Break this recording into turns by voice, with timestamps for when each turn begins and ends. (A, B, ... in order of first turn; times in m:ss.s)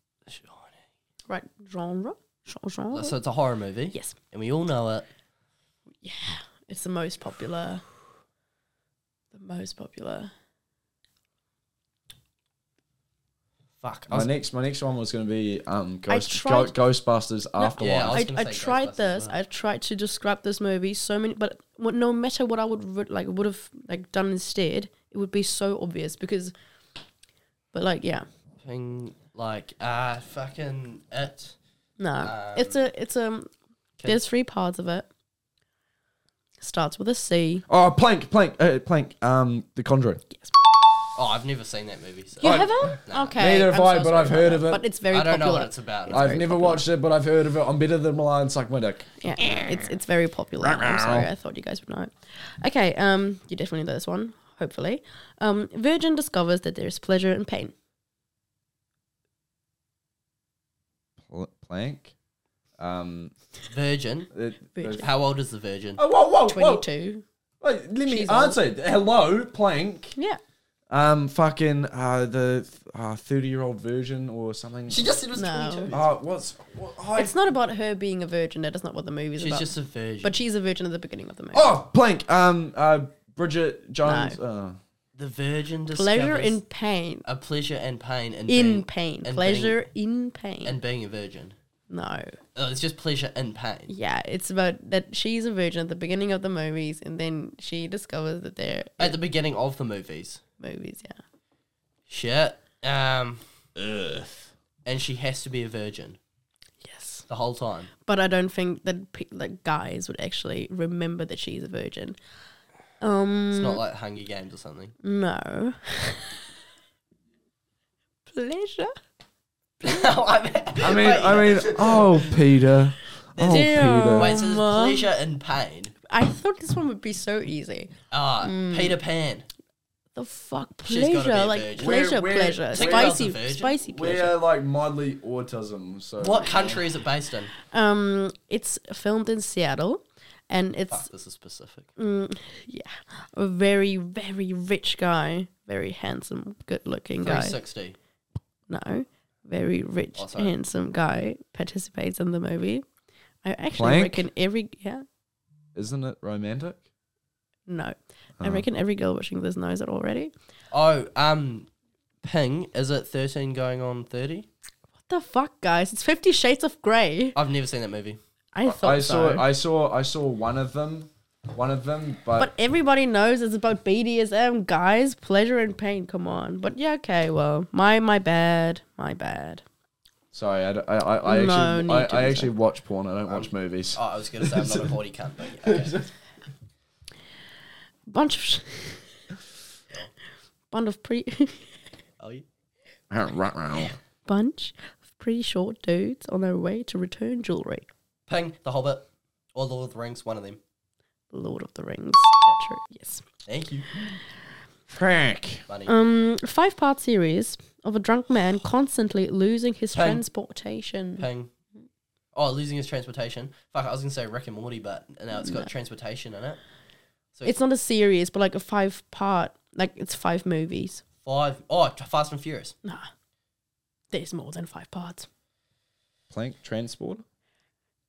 0:00.3-0:00.8 A
0:01.3-0:03.2 B
0:02.9-0:05.1 A
0:06.0-0:07.8 B
0:09.3-0:10.3 B
0:13.8-0:14.3 A
0:14.1-0:18.2 C
0:16.1-0:16.7 B
0:17.6-0:26.5 B
0:17.8-0:19.3 A
0:27.7-0:28.2 B
0:28.6-0:31.6 A
0:32.0-0:33.5 B
0:32.2-0:32.9 A
0:34.0-0:35.1 B
0:36.6-0:37.6 B
0:37.7-0:40.2 C
0:41.1-0:43.4 A
0:42.4-0:44.8 C
0:42.4-0:46.8 B
0:45.1-0:46.3 A
0:46.1-0:49.8 C
0:49.2-0:57.7 B
0:50.6-0:51.3 C
1:01.3-1:02.1 C
1:02.8-1:03.3 C
1:03.7-1:04.3 A
1:04.3-1:05.0 C
1:04.8-1:05.1 B
1:05.0-1:06.0 A
1:06.0-1:06.8 C
1:06.5-1:07.2 B
1:07.6-1:10.1 C
1:08.0-1:08.6 B
1:10.9-1:15.0 C
1:14.9-1:16.1 A
1:15.4-1:15.9 B
1:15.9-1:17.4 C
1:17.1-1:19.7 B
1:19.4-1:20.4 A
1:20.2-1:21.7 B
1:21.5-1:24.8 C
1:24.0-1:24.4 B
1:25.2-1:26.6 A
1:25.9-1:27.2 B
1:27.2-1:29.8 A
1:28.5-1:30.8 B
1:30.6-1:31.5 A
1:31.9-1:32.4 B
1:32.5-1:33.9 A
1:33.9-1:39.2 B
1:39.0-1:40.4 A
1:40.6-1:41.2 B
1:42.1-1:43.4 A
1:43.8-1:44.5 C
1:44.8-1:46.2 A
1:46.8-1:47.2 B
1:47.3-1:47.9 A
1:48.0-1:52.2 B
1:53.0-1:53.8 B
1:53.5-1:55.0 A
1:55.0-1:56.3 B
1:58.3-1:59.0 B
1:59.8-2:02.4 A
2:00.8-2:04.4 C
2:03.3-2:05.9 A
2:03.4-2:05.1 B
2:06.1-2:09.0 B
2:08.1-2:09.5 A
2:10.2-2:14.3 B
2:10.8-2:12.1 A
2:11.8-2:13.2 C
2:12.7-2:13.8 A
2:13.9-2:16.8 C
2:16.2-2:17.5 A
2:17.7-2:21.1 B
2:20.9-2:21.9 A
2:22.0-2:27.6 B
2:27.2-2:28.0 A
2:28.7-2:32.8 B
2:30.2-2:30.5 A
2:33.4-2:35.0 B
2:33.7-2:34.2 C
2:35.7-2:36.8 C
2:37.7-2:40.3 B
2:38.4-2:38.6 C
2:40.7-2:41.7 A
2:42.2-2:44.5 A
2:45.1-2:47.4 B
2:47.3-2:48.2 A
2:48.5-2:49.4 B
2:48.6-2:52.5 C
2:52.4-2:59.6 B
3:00.3-3:04.9 C
3:01.2-3:02.5 B
3:03.3-3:06.0 A
3:05.6-3:06.1 C
3:08.1-3:09.1 B
3:10.7-3:11.7 B
3:12.2-3:12.4 A
3:13.1-3:13.9 C
3:14.3-3:17.9 B
3:18.3-3:20.6 A
3:21.3-3:23.2 B
3:23.4-3:23.9 A
3:24.9-3:25.6 C
3:25.7-3:25.9 A
3:25.9-3:31.2 B
3:29.9-3:30.2 A
3:31.2-3:31.5 A
3:32.3-3:36.6 A
3:35.4-3:35.7 B
3:37.4-3:41.0 B
3:41.2-3:42.7 A
3:44.1-3:45.3 B
3:46.3-3:47.2 C